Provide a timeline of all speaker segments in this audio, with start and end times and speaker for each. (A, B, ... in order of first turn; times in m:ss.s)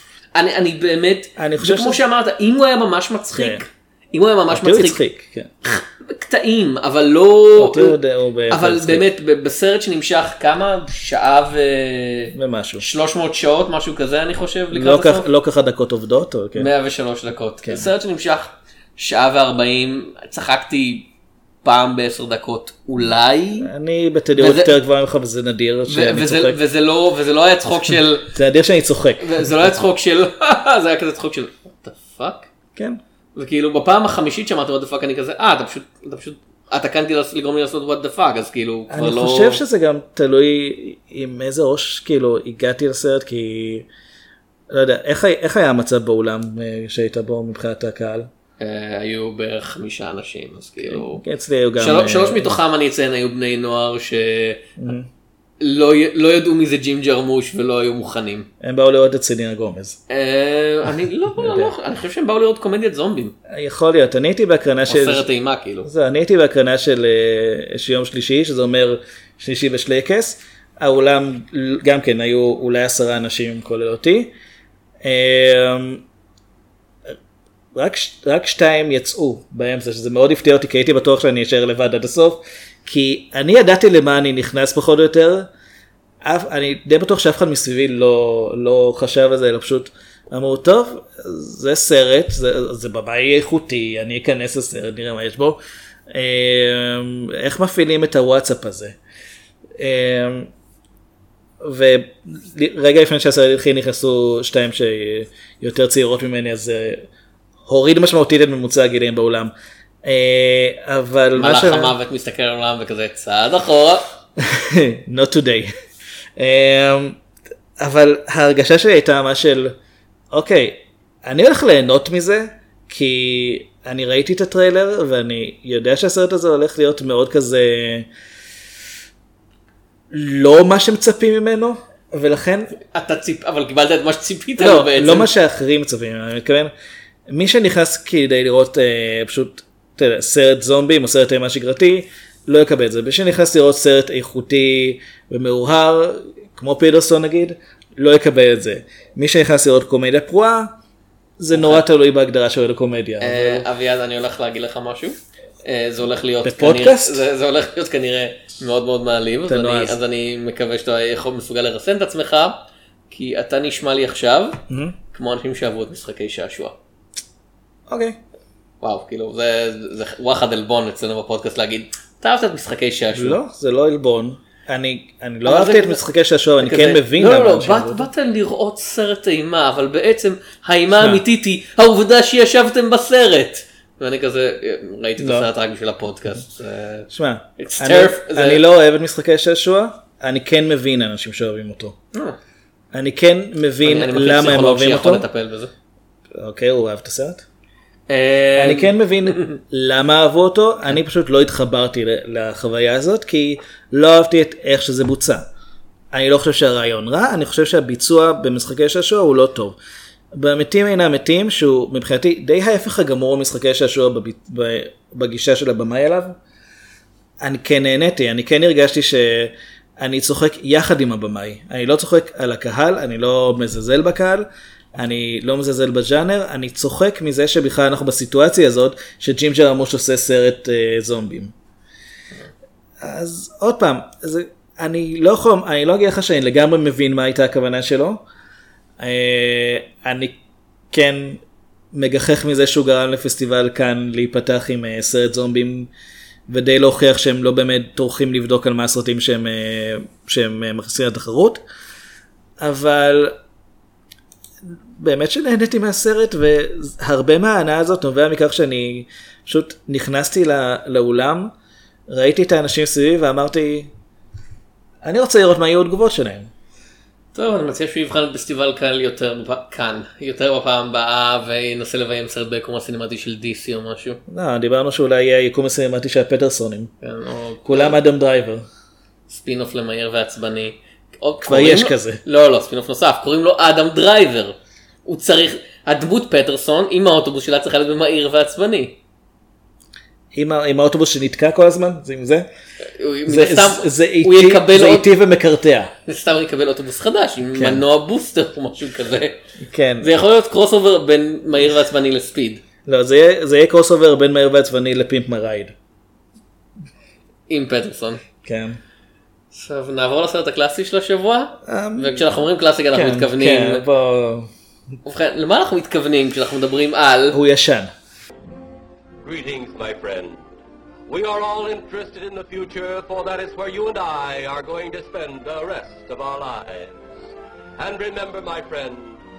0:00.4-0:05.0 A
0:01.4-0:02.0 B
0:03.3-0:03.6 B
0:04.5-0:05.5 B
0:05.6-0:08.0 A
0:07.6-0:09.1 B
0:08.5-0:15.3 A
0:12.4-0:12.8 B
0:14.7-0:16.7 B
0:16.6-0:21.1 A
0:17.6-0:17.9 B
0:21.6-0:23.7 A
0:23.6-0:26.6 B
0:24.4-0:24.8 A
0:25.9-0:28.3 A
0:28.3-0:29.7 B
0:29.2-0:32.5 A
0:33.4-0:39.6 A
0:38.9-0:43.9 B
0:44.7-0:48.3 B
0:48.6-0:51.2 A
0:50.8-0:52.6 B
0:51.8-0:54.7 A
0:54.8-0:55.1 B
0:55.6-0:58.5 A
0:58.6-1:00.0 B
1:00.1-1:03.3 A
1:01.4-1:01.7 B
1:03.5-1:05.3 B
1:04.9-1:05.9 A
1:05.8-1:14.3 B
1:15.0-1:16.0 B
1:17.7-1:25.5 B
1:26.2-1:35.6 B
1:36.1-1:39.0 B
1:39.8-1:40.5 B
1:41.6-1:47.0 B
1:47.7-1:49.5 B
1:50.0-1:52.0 B
1:51.4-1:54.0 A
1:54.4-1:55.7 B
1:56.4-1:57.2 B
1:57.8-1:59.8 B
2:00.3-2:08.1 B
2:10.1-2:12.8 B
2:12.8-2:15.3 A
2:14.6-2:16.7 B
2:17.3-2:30.8 B
2:31.4-2:33.7 B
2:31.5-2:31.8 A
2:33.2-2:44.6 A
2:36.4-2:37.2 B
2:39.5-2:40.0 B
2:44.7-2:45.0 B
2:45.1-2:46.8 A
2:47.9-2:48.2 B
2:48.8-2:53.4 A
2:53.1-2:58.1 B
2:55.4-2:56.0 A
2:56.6-3:08.6 A
3:01.0-3:01.2 B
3:05.2-3:05.5 B
3:07.1-3:12.0 B
3:12.9-3:15.3 B
3:13.8-3:15.7 A
3:16.4-3:17.4 B
3:18.1-3:19.6 A
3:18.6-3:25.5 B
3:26.1-3:29.8 B
3:30.3-3:36.4 B
3:37.4-3:51.5 B
3:53.0-3:58.2 B
3:59.0-4:00.4 B
4:00.9-4:01.4 B
4:01.9-4:05.9 B
4:06.5-4:11.6 B
4:12.6-4:13.4 B
4:14.6-4:21.5 B
4:22.1-4:23.9 B
4:25.0-4:26.5 B
4:27.4-4:34.2 A
4:34.3-4:36.9 B
4:37.0-4:38.0 A
4:37.6-4:38.7 B
4:39.3-4:49.0 A
4:41.4-4:42.2 B
4:50.3-4:52.5 B
4:53.0-4:55.1 A
4:53.3-4:55.9 B
4:56.1-4:59.4 A
4:57.5-4:57.8 B
4:59.6-5:00.1 B
5:00.0-5:02.6 A
5:02.9-5:05.7 B
5:07.5-5:08.2 A
5:08.4-5:08.8 B
5:09.5-5:13.8 A
5:11.6-5:12.2 B
5:12.9-5:14.5 B
5:15.0-5:17.4 A
5:17.3-5:17.9 B
5:19.2-5:20.4 C
5:21.1-5:27.0 C
5:27.8-5:29.2 C